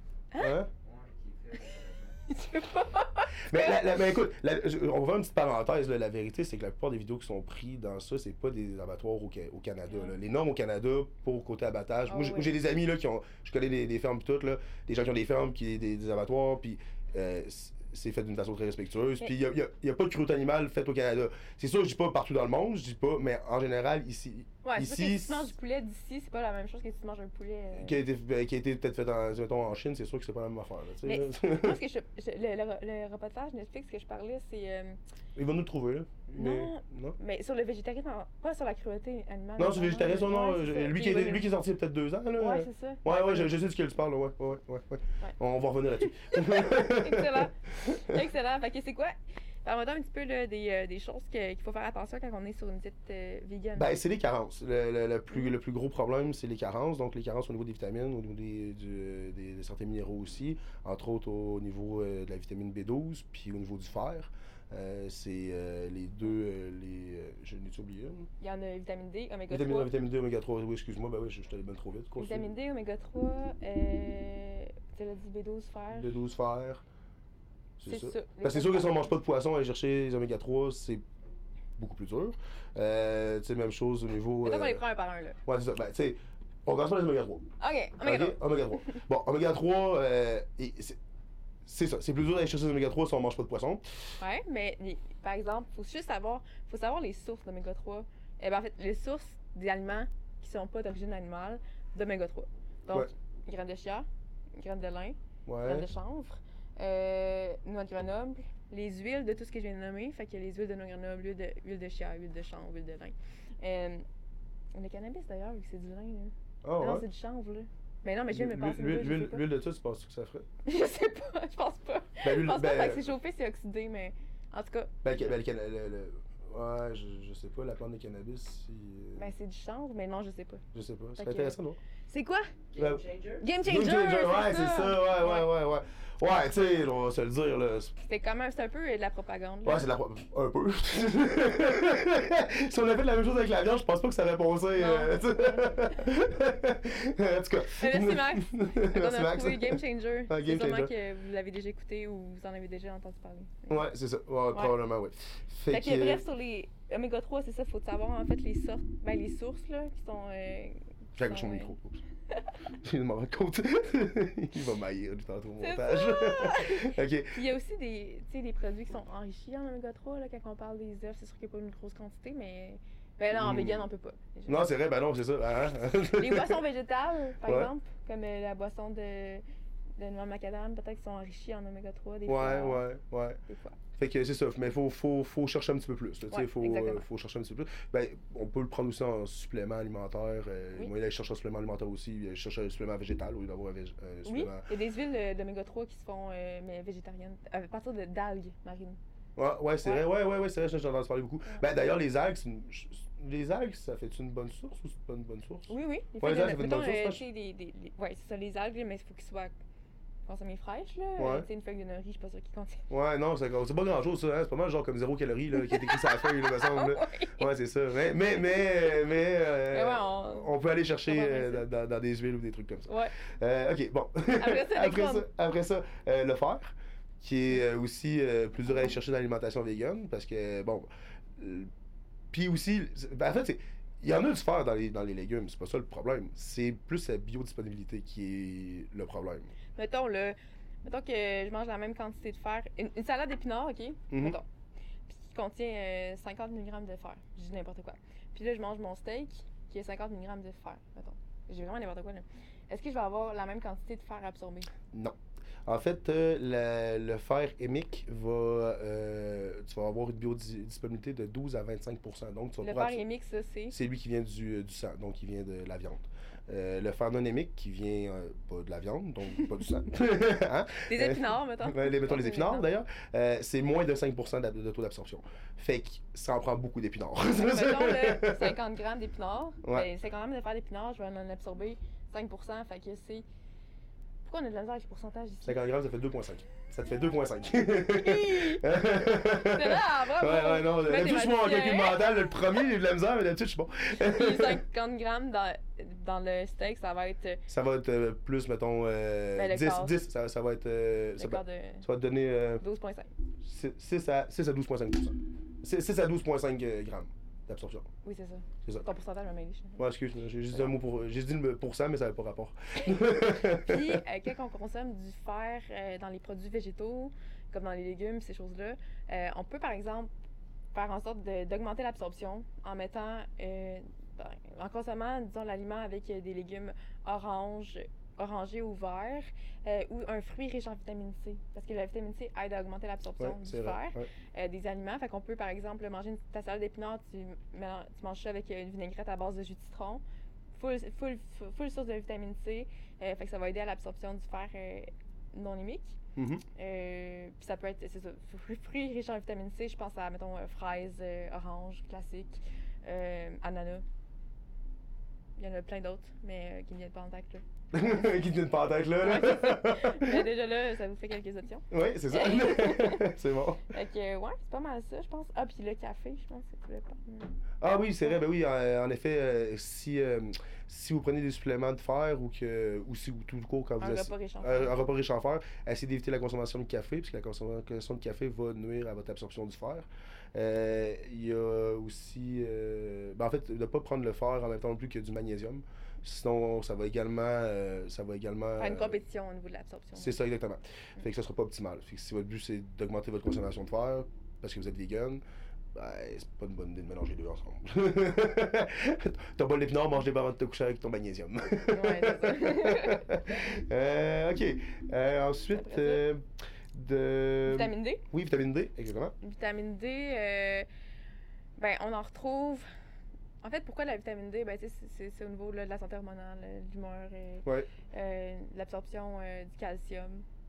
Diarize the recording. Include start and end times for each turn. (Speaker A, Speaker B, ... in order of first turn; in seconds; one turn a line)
Speaker A: 0.3-0.6
Speaker B: 0.4-0.7
Speaker C: 0.8-2.2
Speaker A: 2.3-4.1
Speaker B: 3.4-25.5
Speaker A: 9.9-10.1
Speaker A: 12.1-12.6
Speaker A: 24.6-28.0
Speaker B: 27.8-31.8
Speaker A: 31.0-35.0
Speaker B: 35.4-37.2
Speaker A: 36.4-41.5
Speaker B: 39.6-48.2
Speaker A: 42.4-43.5
Speaker A: 46.0-53.9
Speaker B: 53.8-68.3
Speaker A: 68.4-69.9
Speaker B: 69.5-72.5
Speaker A: 72.2-76.1
Speaker B: 75.9-76.8
Speaker B: 77.8-81.0
Speaker A: 77.9-79.1
Speaker B: 81.8-84.8
Speaker A: 84.4-85.4
Speaker B: 85.5-87.5
Speaker A: 87.6-89.0
Speaker B: 88.0-91.0
Speaker B: 91.7-93.8
Speaker A: 94.2-114.1
Speaker B: 105.5-105.9
Speaker A: 114.7-119.5
Speaker B: 116.6-117.0
Speaker B: 118.3-120.5
Speaker A: 120.7-125.3
Speaker B: 122.2-123.1
Speaker B: 125.0-129.3
Speaker A: 129.2-130.6
Speaker B: 130.7-131.8
Speaker A: 131.2-131.6
Speaker A: 132.1-132.5
Speaker C: 132.7-133.4
Speaker B: 132.8-137.9
Speaker A: 133.4-135.5
Speaker A: 138.0-139.9
Speaker B: 139.7-150.9
Speaker A: 144.7-145.8
Speaker A: 147.8-153.9
Speaker B: 153.7-156.2
Speaker A: 155.7-161.7
Speaker B: 161.2-162.0
Speaker B: 162.8-167.4
Speaker A: 165.6-174.7
Speaker B: 173.3-173.8
Speaker B: 174.5-176.6
Speaker A: 176.1-179.4
Speaker B: 177.4-177.7
Speaker A: 180.0-182.9
Speaker B: 182.3-183.4
Speaker A: 183.5-183.8
Speaker B: 184.0-194.7
Speaker A: 186.3-187.0
Speaker A: 194.2-199.0
Speaker B: 199.4-207.2
Speaker A: 205.7-209.5
Speaker A: 210.3-212.8
Speaker B: 211.2-211.5
Speaker B: 212.9-231.7
Speaker A: 215.6-217.5
Speaker A: 218.3-219.0
Speaker A: 219.7-220.5
Speaker A: 221.1-221.7
Speaker A: 222.9-223.2
Speaker A: 224.4-225.3
Speaker B: 232.3-239.5
Speaker A: 239.8-244.5
Speaker B: 244.1-244.4
Speaker A: 245.1-254.7
Speaker B: 254.9-263.0
Speaker A: 262.6-263.8
Speaker B: 263.7-278.6
Speaker A: 270.9-272.7
Speaker A: 277.4-283.2
Speaker A: 284.2-285.6
Speaker B: 285.4-294.6
Speaker A: 287.8-288.7
Speaker A: 289.3-292.2
Speaker A: 294.0-297.4
Speaker B: 297.5-302.6
Speaker A: 299.4-299.9
Speaker A: 301.2-301.9
Speaker A: 302.6-303.1
Speaker B: 303.4-307.9
Speaker A: 308.0-309.8
Speaker B: 309.8-314.0
Speaker A: 313.5-320.1
Speaker A: 320.7-340.0
Speaker B: 333.2-334.1
Speaker A: 340.5-346.0
Speaker B: 346.2-346.4
Speaker A: 346.6-353.9
Speaker A: 355.4-358.2
Speaker B: 357.7-360.3
Speaker A: 359.0-363.1
Speaker B: 361.7-363.6
Speaker A: 363.7-367.4
Speaker B: 367.6-389.0
Speaker A: 373.8-374.8
Speaker A: 388.6-390.2
Speaker B: 390.0-395.2
Speaker B: 395.7-409.1
Speaker A: 401.7-403.5
Speaker A: 405.5-406.0
Speaker A: 407.5-408.0
Speaker A: 409.2-410.7
Speaker A: 411.6-412.7
Speaker A: 413.4-420.2